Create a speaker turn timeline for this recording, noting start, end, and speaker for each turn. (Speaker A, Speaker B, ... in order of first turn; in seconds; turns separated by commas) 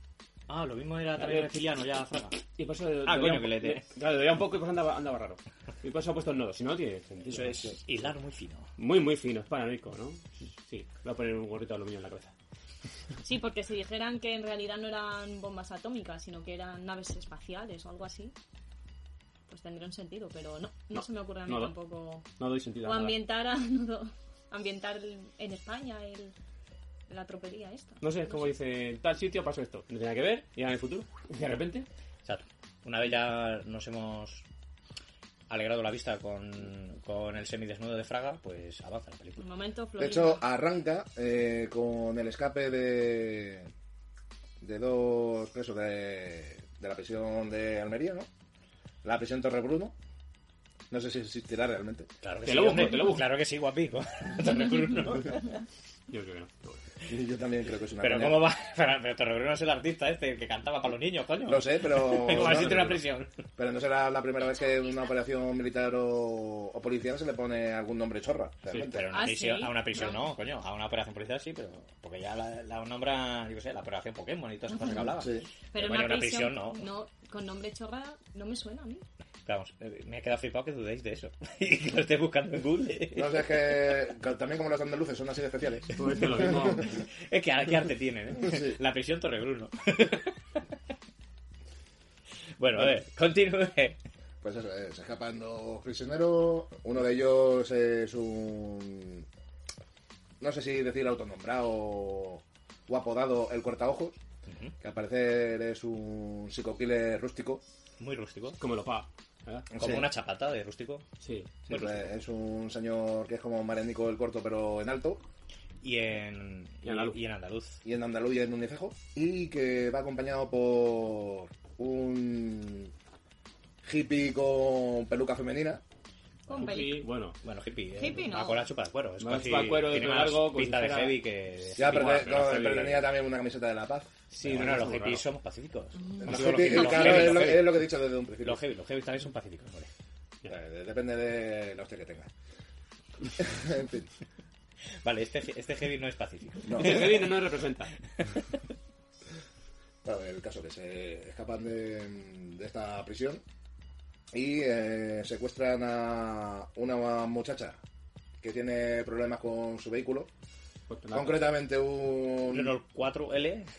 Speaker A: 0.5-2.4, Speaker B: 1.2-1.6, Speaker B: 2.5-7.8, Speaker A: 3.0-3.9, Speaker A: 7.3-8.7, Speaker B: 8.8-12.3, Speaker C: 13.2-18.3, Speaker C: 19.5-22.3, Speaker B: 20.9-21.7, Speaker B: 22.4-23.2, Speaker C: 22.8-26.3, Speaker C: 27.1-28.5, Speaker B: 28.0-31.9, Speaker A: 32.2-34.4, Speaker A: 35.5-39.5, Speaker C: 39.4-40.4, Speaker D: 40.0-43.7, Speaker D: 44.6-48.3, Speaker D: 49.0-50.0, Speaker D: 50.9-52.1, Speaker A: 52.2-55.6, Speaker B: 52.4-53.3, Speaker B: 56.1-56.8, Speaker D: 57.1-58.5, Speaker A: 58.0-63.3, Speaker D: 61.5-63.0, Speaker B: 62.3-63.0, Speaker D: 63.6-69.0, Speaker A: 68.8-76.8, Speaker C: 69.1-70.2, Speaker C: 74.7-75.1, Speaker D: 75.2-75.5, Speaker C: 75.7-79.0, Speaker A: 79.5-83.5, Speaker D: 83.2-86.0, Speaker B: 86.0-86.9, Speaker A: 86.8-90.4, Speaker D: 88.5-88.8, Speaker A: 92.6-94.0, Speaker D: 94.4-99.3, Speaker D: 100.4-104.2, Speaker A: 104.5-104.8, Speaker D: 104.8-107.6, Speaker A: 108.0-108.6, Speaker B: 108.6-109.7, Speaker D: 109.7-110.1, Speaker A: 109.8-111.1, Speaker B: 111.2-111.6, Speaker D: 111.7-115.2, Speaker A: 111.7-112.0, Speaker A: 115.8-117.8, Speaker B: 116.8-117.2, Speaker D: 117.8-122.9, Speaker D: 123.8-125.8, Speaker C: 126.5-127.0, Speaker B: 126.5-127.4, Speaker A: 126.5-126.8, Speaker A: 127.4-132.4, Speaker C: 128.0-128.6, Speaker B: 129.2-133.0, Speaker D: 131.8-134.2, Speaker B: 134.3-135.2, Speaker A: 134.4-137.8, Speaker D: 136.2-138.6, Speaker B: 136.3-137.6, Speaker A: 138.4-139.9, Speaker D: 140.5-142.3, Speaker D: 143.4-144.1, Speaker A: 145.0-147.3, Speaker D: 146.7-147.1, Speaker B: 146.8-147.9, Speaker D: 150.0-153.4, Speaker D: 154.3-157.8, Speaker D: 158.4-160.3, Speaker B: 160.9-161.4, Speaker D: 161.1-162.8, Speaker A: 162.5-163.7